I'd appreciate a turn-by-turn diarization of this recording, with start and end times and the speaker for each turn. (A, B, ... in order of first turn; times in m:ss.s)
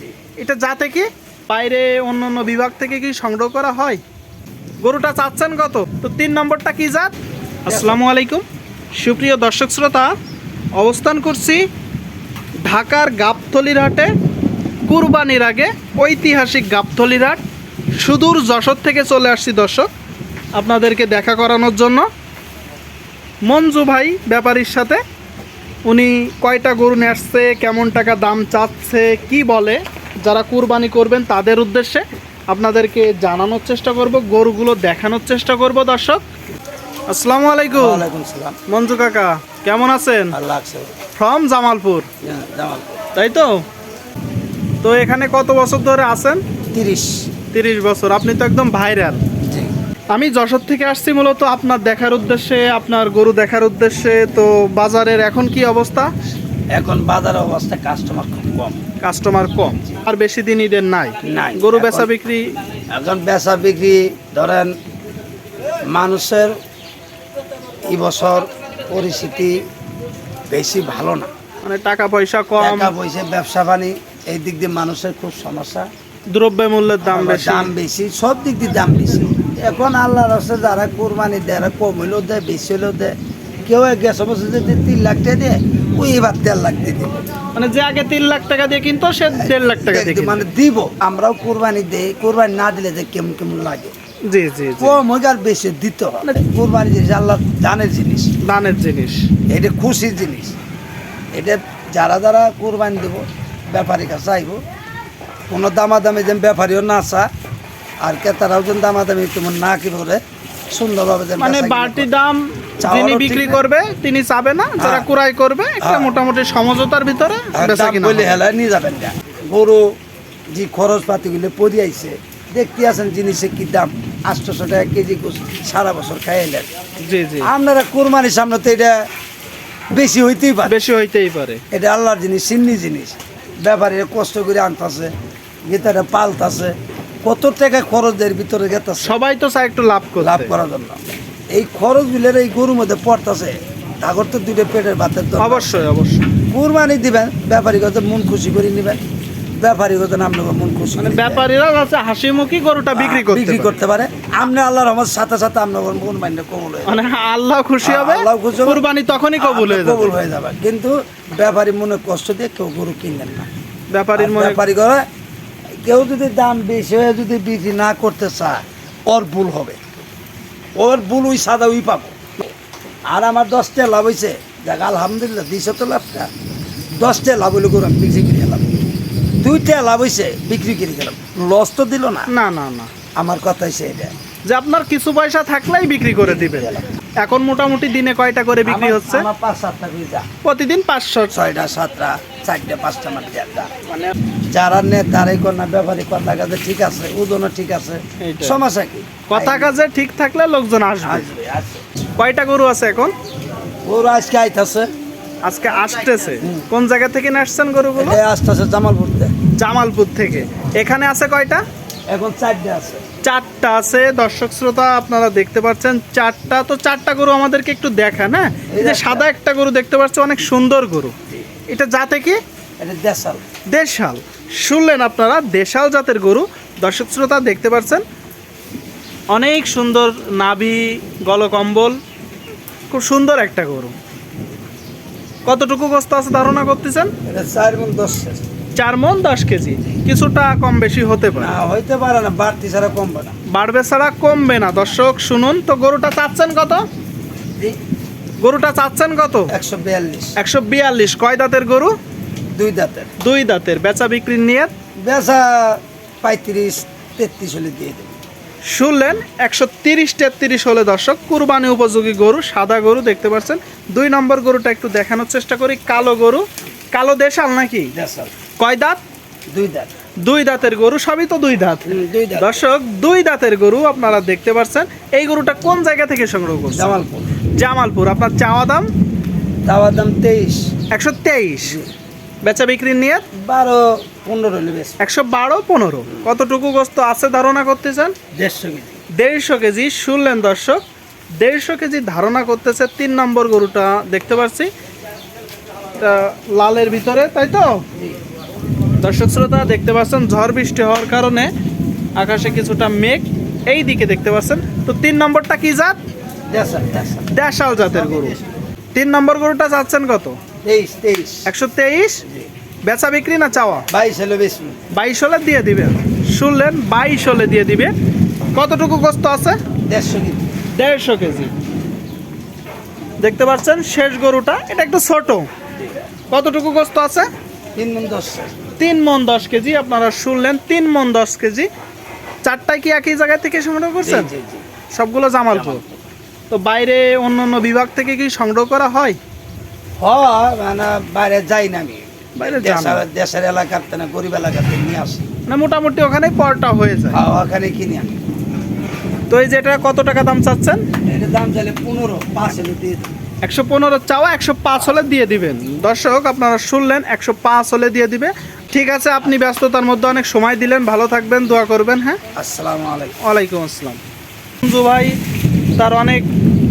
0:00.4-0:04.0 A
0:04.8-0:08.4 A
0:07.7-0:08.0 B
0:09.0-0:10.1 A
0:10.8-0:11.6 A
0:12.6-0:14.1 A
0:14.9-0:17.4 A
0:18.0-0:19.9 A
0:20.6-0:22.1 A
0:23.5-0:25.0 A
0:25.9-0:36.2 A
0:37.1-0:38.0 A
0:37.7-0:38.6 B
0:38.7-0:40.4 A
0:40.3-0:40.9 B
0:41.2-0:42.1 A
0:42.2-0:43.0 B
0:43.2-0:43.6 A
0:44.8-0:46.4 A
0:46.7-0:47.1 B
0:47.5-0:49.2 A
0:50.1-0:56.1 A
0:56.7-0:58.8 B
0:59.0-1:02.5 A
1:01.2-1:02.1 B
1:02.9-1:04.7 B
1:05.9-1:06.5 B
1:07.9-1:09.6 B
1:10.5-1:11.3 B
1:11.6-1:12.9 A
1:12.6-1:15.9 B
1:16.3-1:17.7 A
1:17.0-1:23.1 B
1:23.7-1:27.1 B
1:27.6-1:30.5 A
1:29.3-1:33.9 B
1:34.3-1:35.0 A
1:34.8-1:38.3 B
1:38.4-1:39.3 A
1:39.5-1:40.6 B
1:41.3-1:44.6 B
1:45.5-1:47.3 B
1:48.0-1:52.1 B
1:51.4-1:58.4 A
1:52.8-1:53.6 B
1:54.8-1:55.1 B
1:55.8-1:56.1 B
1:57.5-1:59.8 B
2:00.5-2:06.7 B
2:07.0-2:07.5 A
2:07.4-2:09.0 B
2:09.9-2:10.8 B
2:10.7-2:11.6 A
2:11.7-2:15.1 B
2:15.7-2:19.2 B
2:19.0-2:20.5 A
2:20.2-2:21.0 B
2:21.5-2:25.9 B
2:25.4-2:26.3 A
2:26.5-2:29.0 B
2:29.6-2:31.4 B
2:31.0-2:33.7 A
2:32.9-2:37.0 B
2:36.9-2:40.2 A
2:37.8-2:38.8 B
2:39.4-2:43.5 B
2:43.9-2:44.6 A
2:44.2-2:45.0 B
2:45.8-2:49.8 B
2:50.8-2:52.2 B
2:53.1-2:56.3 B
2:57.0-2:58.7 B
2:59.4-3:02.3 B
3:02.3-3:02.9 A
3:03.2-3:04.1 B
3:04.5-3:09.3 A
3:06.2-3:06.8 B
3:08.6-3:10.3 B
3:10.4-3:11.5 A
3:11.3-3:13.7 B
3:13.9-3:14.2 A
3:14.5-3:19.8 B
3:18.2-3:18.6 A
3:19.3-3:21.3 A
3:21.0-3:21.8 B
3:22.2-3:23.1 A
3:23.8-3:24.9 B
3:25.4-3:28.2 A
3:26.4-3:26.7 B
3:28.0-3:29.3 B
3:29.6-3:31.6 A
3:32.1-3:33.0 B
3:33.2-3:41.1 A
3:38.7-3:39.3 B
3:41.7-3:42.4 A
3:42.8-3:43.4 B
3:43.7-3:48.0 A
3:49.3-3:52.0 A
3:52.9-3:54.0 A
3:55.5-3:57.1 A
3:57.3-3:58.4 B
3:58.8-4:01.6 A
4:01.4-4:03.4 B
4:03.5-4:06.8 A
4:08.4-4:09.5 A
4:09.5-4:10.4 B
4:10.4-4:11.9 A
4:12.6-4:13.1 B
4:13.2-4:14.7 A
4:15.0-4:18.2 B
4:18.6-4:27.9 A
4:28.0-4:28.3 B
4:28.6-4:29.0 A
4:29.5-4:29.9 B
4:30.2-4:36.9 A
4:31.9-4:32.6 B
4:36.7-4:37.4 B
4:37.6-4:38.9 A
4:39.6-4:40.6 B
4:40.9-4:41.8 A
4:41.6-4:41.9 B
4:42.4-4:43.2 A
4:43.4-4:45.0 B
4:45.0-4:48.2 A
4:48.3-4:49.0 B
4:49.2-4:50.8 A
4:51.4-4:54.7 A
4:56.0-4:57.9 A
4:59.0-5:01.5 A
5:02.2-5:06.0 A
5:06.5-5:08.4 B
5:07.3-5:08.4 A
5:09.0-5:10.4 A
5:10.6-5:11.5 B
5:11.5-5:12.2 A
5:12.9-5:13.9 A
5:13.9-5:14.8 B
5:14.9-5:17.9 A
5:18.6-5:19.6 A
5:19.9-5:20.4 B
5:20.8-5:21.5 A
5:23.2-5:25.5 A
5:26.3-5:27.3 A
5:27.8-5:28.6 B
5:28.8-5:31.7 A
5:32.4-5:34.3 A
5:34.0-5:34.6 B
5:35.0-5:35.8 A
5:35.5-5:36.0 B
5:36.5-5:39.2 A
5:40.0-5:45.3 B
5:42.4-5:43.0 A
5:45.5-5:47.2 A
5:47.1-5:48.1 B
5:49.3-5:50.8 A
5:51.1-5:53.2 B
5:53.4-6:02.2 A
6:02.4-6:03.2 B
6:03.2-6:04.0 A
6:04.6-6:05.2 A
6:05.8-6:06.3 A